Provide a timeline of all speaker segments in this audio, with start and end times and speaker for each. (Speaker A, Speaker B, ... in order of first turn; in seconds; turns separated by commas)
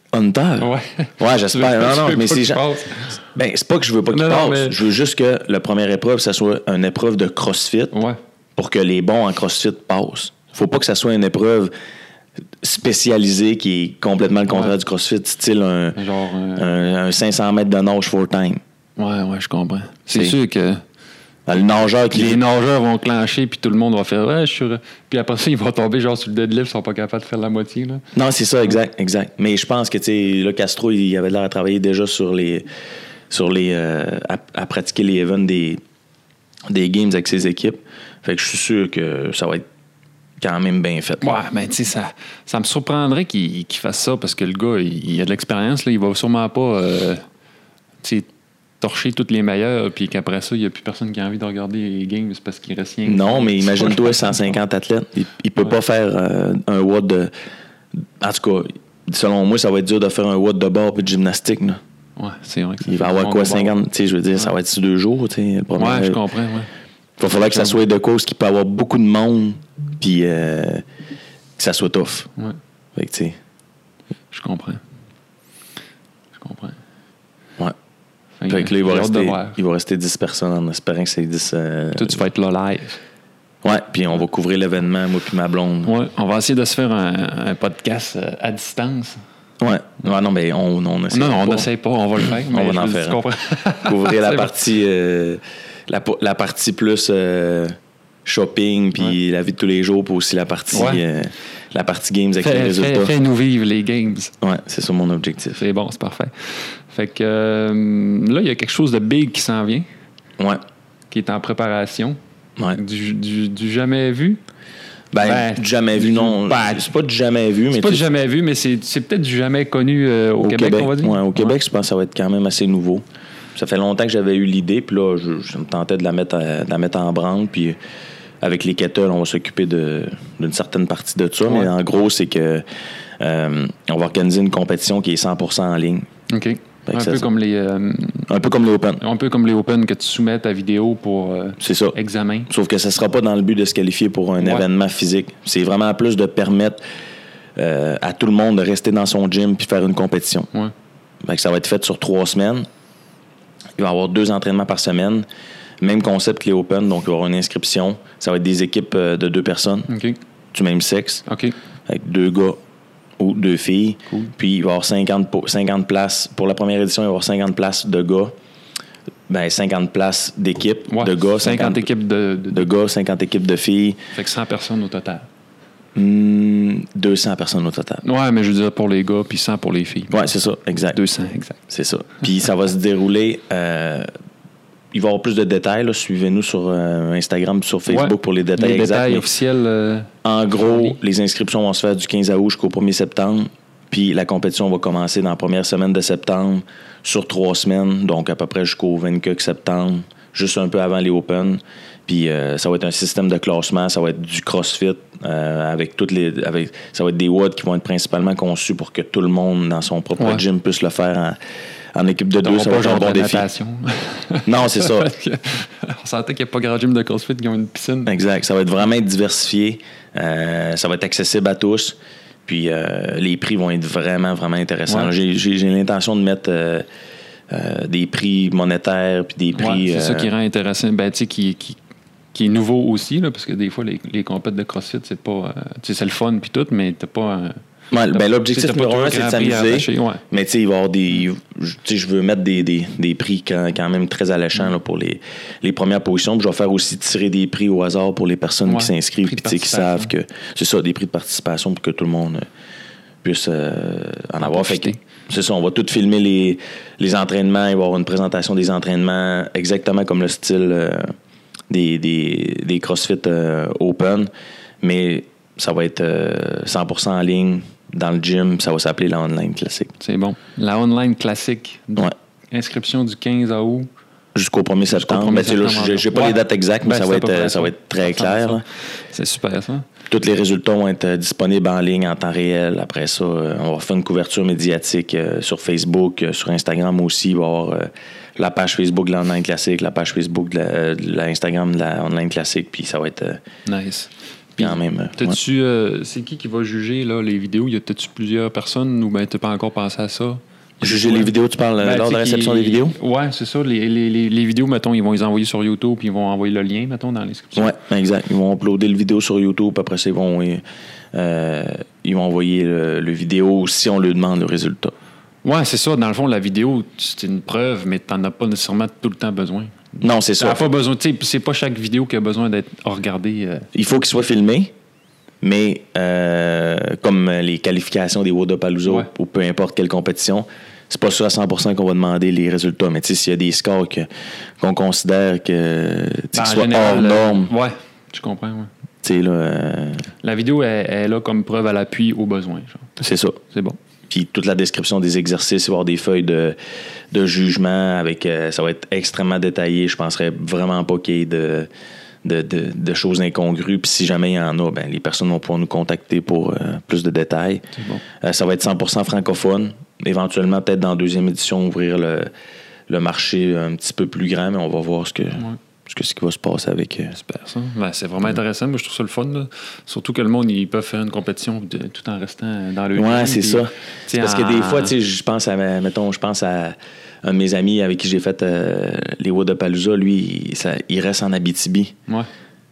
Speaker A: 0.1-2.6, Speaker B: 0.6-3.2, Speaker A: 3.4-8.0, Speaker B: 4.1-4.8, Speaker B: 7.9-8.2, Speaker A: 8.6-11.7, Speaker A: 12.6-16.0, Speaker B: 14.5-14.8, Speaker B: 16.0-16.7, Speaker A: 16.6-18.6, Speaker B: 19.0-20.8, Speaker A: 21.5-22.4, Speaker B: 22.1-28.0, Speaker A: 28.1-32.7, Speaker A: 33.3-35.8, Speaker A: 36.7-39.6, Speaker A: 40.4-41.5, Speaker B: 41.2-47.2, Speaker B: 48.0-48.3, Speaker B: 48.8-54.5, Speaker A: 53.1-57.3, Speaker A: 58.2-61.8, Speaker B: 62.2-63.8, Speaker A: 62.8-66.2, Speaker B: 65.8-66.7, Speaker A: 67.2-70.8, Speaker B: 67.3-67.8, Speaker A: 71.6-72.3, Speaker A: 73.0-73.3, Speaker B: 74.3-74.8, Speaker B: 76.4-76.8, Speaker B: 78.4-79.6, Speaker A: 78.5-82.2, Speaker B: 82.0-83.0, Speaker A: 83.6-85.9, Speaker B: 85.8-89.2, Speaker A: 89.6-91.7, Speaker B: 91.1-94.6, Speaker A: 92.2-93.2, Speaker A: 93.8-103.2, Speaker B: 100.7-101.0, Speaker B: 102.4-104.3, Speaker A: 104.4-105.6, Speaker B: 105.6-109.9, Speaker B: 111.1-112.2, Speaker B: 112.7-114.4, Speaker A: 115.1-118.1, Speaker B: 115.2-116.9, Speaker B: 117.7-121.6, Speaker A: 120.4-127.8, Speaker A: 128.4-132.6, Speaker B: 131.4-131.7, Speaker A: 133.2-136.1, Speaker B: 136.3-138.3, Speaker A: 136.9-137.3, Speaker A: 138.3-139.0, Speaker B: 139.0-142.5, Speaker A: 141.6-142.0, Speaker A: 142.5-146.8, Speaker B: 144.4-144.7, Speaker A: 147.6-150.5, Speaker A: 151.2-152.7, Speaker A: 153.8-155.2, Speaker A: 155.8-159.9, Speaker B: 159.9-160.2, Speaker A: 160.5-161.2, Speaker B: 161.3-161.6, Speaker A: 161.9-162.6, Speaker A: 163.2-168.3, Speaker B: 164.1-164.3, Speaker A: 169.3-171.9, Speaker B: 170.9-172.7, Speaker A: 172.5-174.0, Speaker B: 174.1-175.3, Speaker A: 175.9-178.0, Speaker B: 178.0-180.2, Speaker A: 180.1-181.0, Speaker B: 180.9-181.6, Speaker A: 181.7-184.1, Speaker A: 184.9-189.3, Speaker B: 187.9-191.0, Speaker A: 190.2-211.4, Speaker B: 210.2-210.4, Speaker A: 211.9-213.5, Speaker B: 212.4-218.2, Speaker A: 214.5-215.1, Speaker A: 218.1-226.9, Speaker B: 224.9-225.1, Speaker A: 227.5-230.3, Speaker B: 229.6-231.8, Speaker B: 232.3-237.6, Speaker A: 237.9-252.4, Speaker B: 238.1-240.2, Speaker B: 248.7-250.1, Speaker A: 253.2-261.1, Speaker B: 254.4-255.0, Speaker A: 261.7-264.3, Speaker A: 264.8-269.9, Speaker B: 270.0-273.9, Speaker A: 274.4-278.6, Speaker B: 274.9-279.9, Speaker A: 280.1-293.4, Speaker B: 293.7-307.8, Speaker A: 294.6-295.4, Speaker A: 300.8-303.0, Speaker A: 307.6-310.6, Speaker A: 311.1-314.9, Speaker B: 315.4-323.7, Speaker A: 320.0-320.7, Speaker A: 323.8-324.7, Speaker A: 325.4-334.1, Speaker A: 334.6-337.5, Speaker B: 336.3-338.7, Speaker A: 339.0-340.1, Speaker B: 340.2-342.9, Speaker A: 343.0-343.4, Speaker B: 343.5-343.8, Speaker A: 344.1-346.6, Speaker A: 347.1-351.7, Speaker A: 352.2-357.7, Speaker B: 357.8-358.0, Speaker A: 358.2-362.3, Speaker A: 362.9-367.2, Speaker B: 367.1-374.9, Speaker A: 372.9-381.9